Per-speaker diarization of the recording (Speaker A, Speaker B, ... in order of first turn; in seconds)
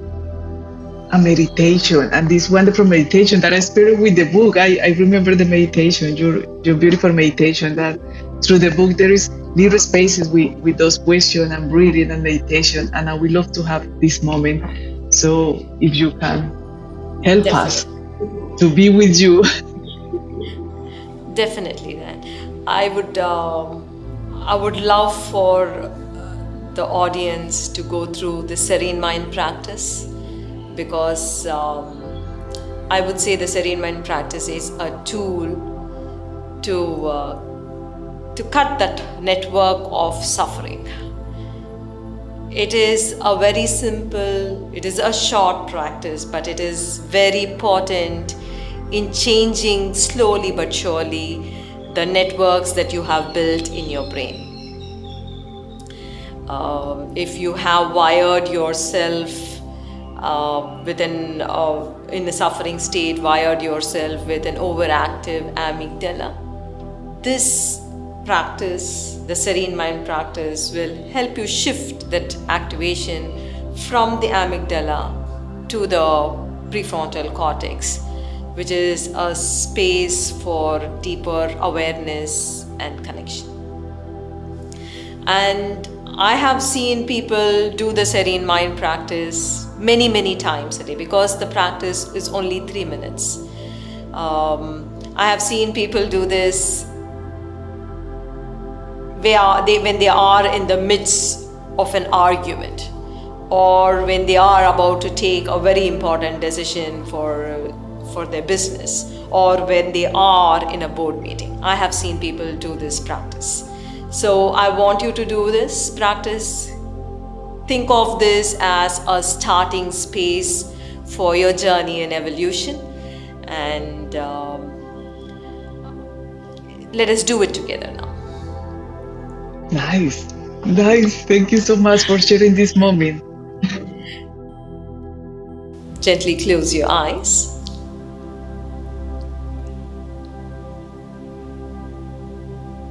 Speaker A: 1.1-16.5, 17.2-17.9, 18.6-19.4, 129.7-133.2
Speaker B: 17.4-17.9, 21.3-26.1, 26.7-30.1, 30.7-32.2, 32.9-35.8, 36.6-37.4, 38.3-40.9, 42.5-48.4, 48.9-54.6, 56.5-59.6, 60.2-66.3, 67.2-78.0, 78.5-83.5, 85.2-93.4, 94.1-96.9, 99.2-102.9, 103.5-116.7, 117.7-122.9, 123.5-124.8, 126.9-128.1, 136.0-137.5